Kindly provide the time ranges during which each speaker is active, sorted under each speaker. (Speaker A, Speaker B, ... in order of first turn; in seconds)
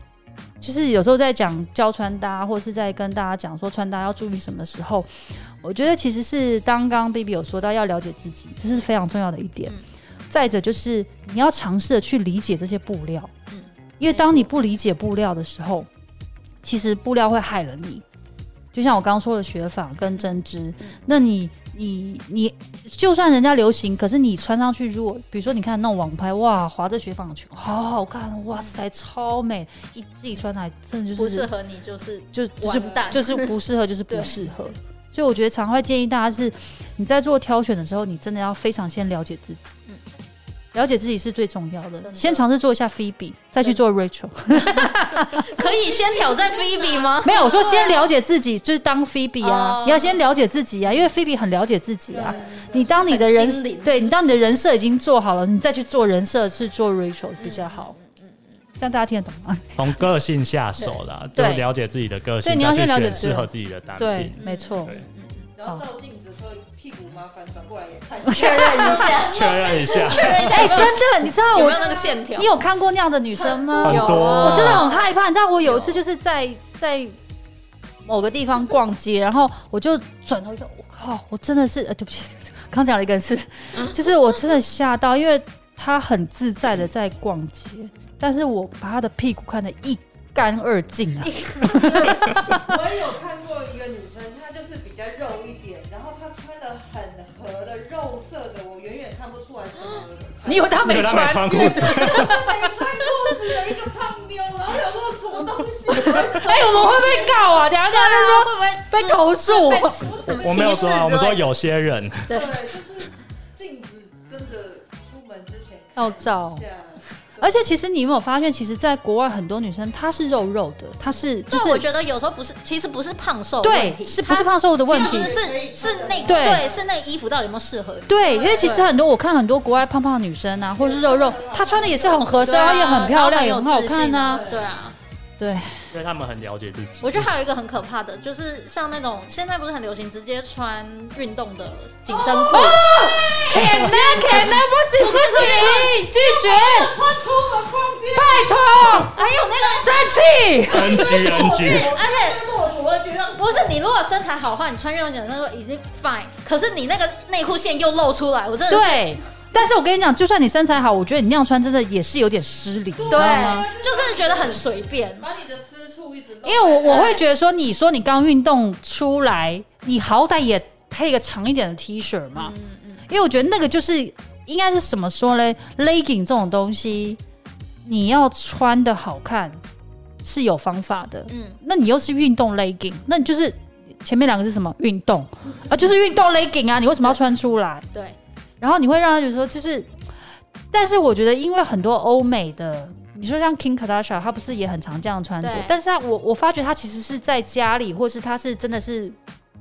Speaker A: 0.6-9.8, 10.3-13.3, 14.0-15.9, 16.6-18.0, 18.7-31.5, 32.3-39.8, 40.7-45.6, 47.2-58.0, 58.8-60.1, 61.4-61.7, 62.4-64.9, 68.3-69.1, 70.5-77.2, 78.0-92.8, 100.5-103.8, 105.9-110.2, 116.0-116.6, 117.4-121.9, 123.6-125.4, 126.2-126.7, 128.1-134.4, 135.4-135.8, 142.5-147.0, 148.1-151.1, 158.7-163.7, 166.4-172.6, 173.1-177.2, 177.8-179.6, 180.2-187.9, 188.6-189.9, 190.7-199.2
Speaker B: 13.5-14.5, 31.2-33.5, 34.1-34.4, 42.0-42.5, 44.6-48.1, 49.4-50.2, 52.2-54.1, 57.4-58.5, 64.4-65.5, 68.3-72.5, 73.8-75.0, 91.2-92.4, 107.9-111.5, 112.3-112.6, 121.5-128.9, 132.4-135.0, 137.0-142.8, 145.0-145.9, 149.1-150.1, 151.0-152.4, 153.4-159.2, 163.1-165.3, 166.8-167.2, 172.3-173.1, 181.3-181.6, 195.4-195.8
Speaker C: 45.8-47.1, 52.1-53.0, 65.6-72.2, 73.3-74.8, 92.3-100.8, 101.4-107.6, 110.0-111.1, 112.3-117.7, 124.9-126.8, 128.2-128.8, 130.8-133.1, 134.2-134.7, 142.1-143.6, 145.6-153.8, 163.0-164.7, 165.2-167.2
Speaker D: 59.8-65.0, 69.1-70.9, 73.8-74.9, 75.7-76.0, 100.8-102.4, 110.3-112.4, 135.9-137.3, 143.5-143.9, 150.7-152.0